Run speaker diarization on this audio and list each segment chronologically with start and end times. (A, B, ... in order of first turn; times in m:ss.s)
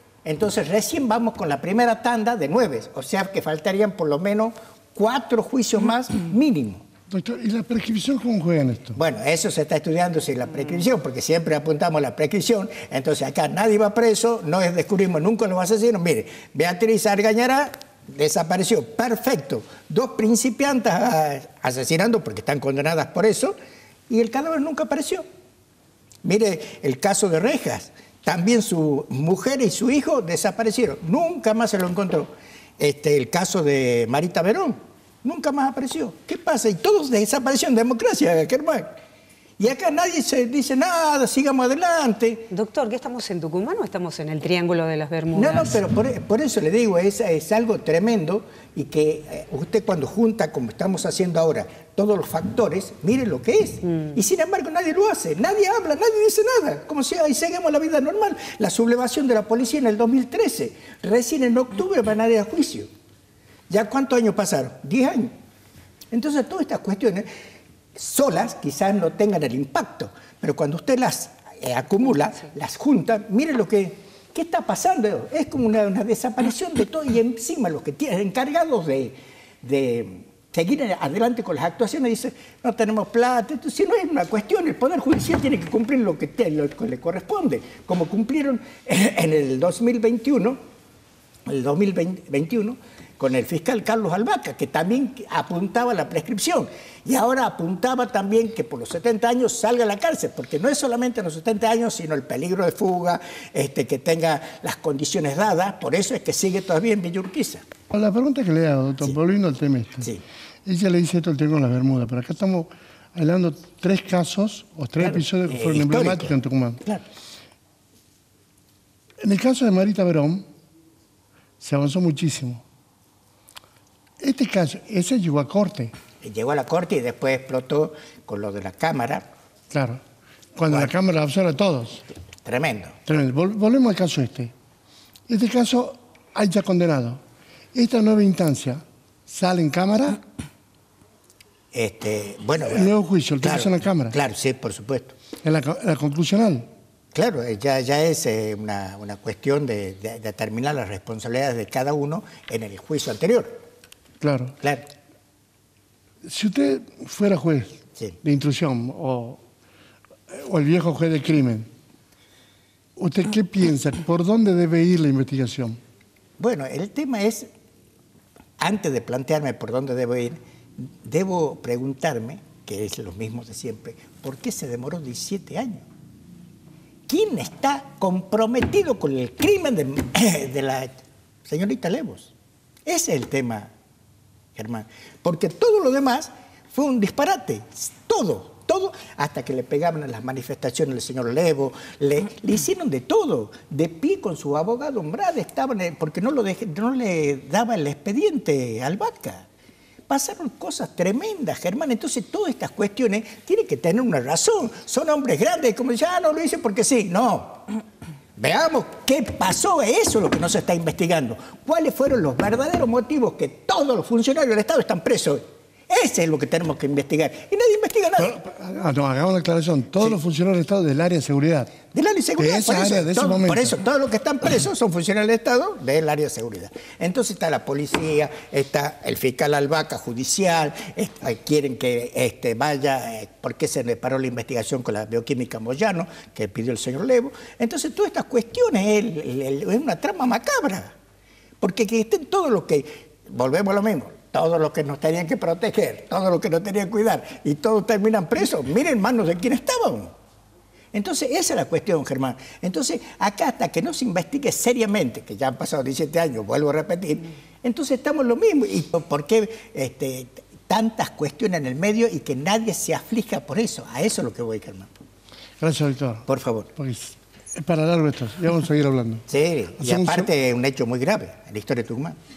0:00.2-0:06.8 A
0:07.1-0:09.0 B
0:09.0-0:23.5 A
0:24.1-0:25.2 A
0:26.2-0:38.8 A
0:39.6-0:42.5 A
0:42.5-0:45.8 C
0:45.3-1:02.9 A
0:53.9-0:54.1 C
1:03.7-1:05.3 A
1:06.1-1:07.2 A
1:07.9-1:30.6 A
1:31.4-1:47.6 A
1:47.9-1:50.1 B
1:50.6-1:56.8 B
1:55.0-1:57.0 A
1:59.2-2:00.4 B
2:01.6-2:02.6 B
2:04.2-2:05.9 B
2:06.2-2:09.3 A
2:09.7-2:10.0 B
2:10.5-2:12.0 B
2:10.7-2:10.9 A
2:12.4-2:13.0 A
2:13.1-2:14.5 B
2:15.3-2:17.2 B
2:17.7-2:20.2 B
2:21.7-2:25.1 A
2:22.6-2:24.2 B
2:25.4-2:26.7 B
2:27.1-2:33.6 A
2:34.2-2:34.5 B
2:36.2-2:39.4 B
2:40.3-2:41.7 B
2:43.0-2:45.8 B
2:46.4-2:47.5 A
2:48.6-2:50.4 A
2:51.0-2:55.8 A
2:57.1-3:00.9 A
3:01.4-3:02.3 A
3:02.8-3:03.7 A
3:04.6-3:19.4 A
3:20.1-3:27.6 A
3:28.4-3:38.3 A
3:38.2-3:41.7 B
3:41.9-4:00.9 A
3:42.4-3:43.8 B
4:01.6-4:10.1 A
4:10.9-4:24.9 A
4:25.6-4:26.2 B
4:26.3-4:26.7 A
4:26.8-4:29.2 B
4:29.3-4:32.2 A
4:29.8-4:30.3 B